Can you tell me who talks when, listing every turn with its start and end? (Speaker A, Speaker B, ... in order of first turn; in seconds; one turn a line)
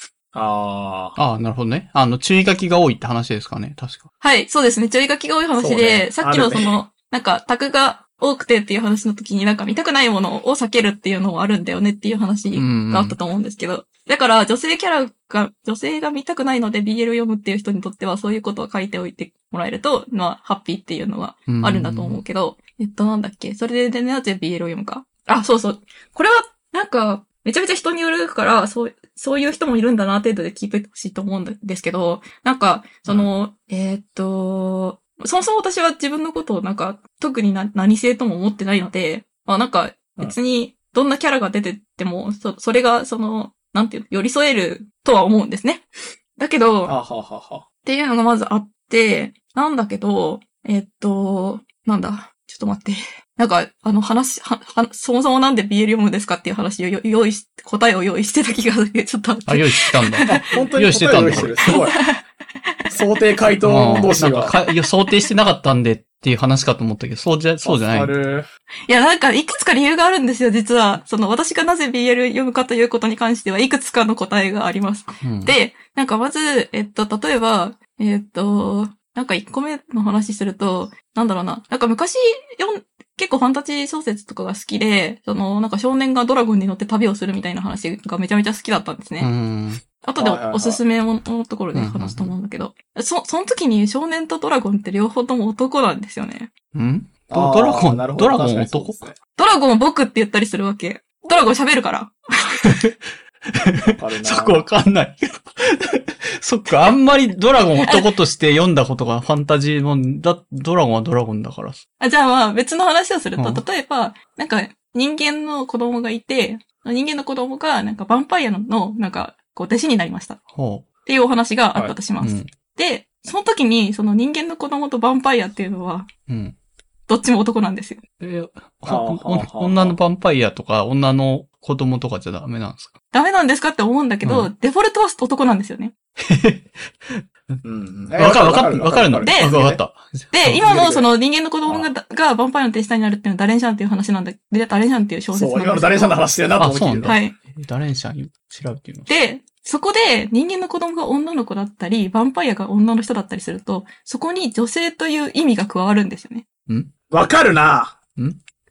Speaker A: 0.3-1.1
Speaker B: 1.1-4.1
Speaker C: 4.2-45.9
Speaker A: 5.6-6.8
Speaker B: 12.5-13.2
Speaker B: 21.5-22.2
Speaker C: 46.4-47.0
Speaker A: 46.9-47.6
Speaker C: 47.8-60.3
Speaker B: 59.5-61.7
Speaker A: 60.2-62.0
Speaker C: 61.7-62.2
Speaker A: 62.9-64.5
Speaker B: 63.6-68.1
Speaker A: 67.6-68.5
Speaker C: 68.9-89.3
Speaker B: 75.2-75.5
Speaker B: 89.2-89.8
Speaker C: 90.0-96.5
Speaker A: 90.2-90.8
Speaker B: 91.7-92.3
Speaker B: 96.7-99.0
Speaker A: 97.3-99.2
Speaker C: 99.4-102.7
Speaker B: 102.6-102.9
Speaker B: 103.5-111.8
Speaker A: 103.9-104.6
Speaker C: 107.8-108.1
Speaker C: 112.0-120.4
Speaker B: 113.4-113.6
Speaker B: 120.5-120.8
Speaker C: 121.1-126.1
Speaker B: 122.2-122.5
Speaker B: 126.3-126.5
Speaker C: 127.1-128.0
Speaker B: 128.2-132.9
Speaker A: 128.8-129.9
Speaker C: 133.1-135.9
Speaker B: 134.2-134.5
Speaker B: 136.2-140.7
Speaker A: 137.6-139.8
Speaker C: 139.2-139.5
Speaker C: 140.3-146.2
Speaker A: 140.6-141.1
Speaker A: 145.3-147.2
Speaker B: 146.6-149.1
Speaker C: 147.0-147.4
Speaker C: 149.1-156.4
Speaker A: 157.1-158.0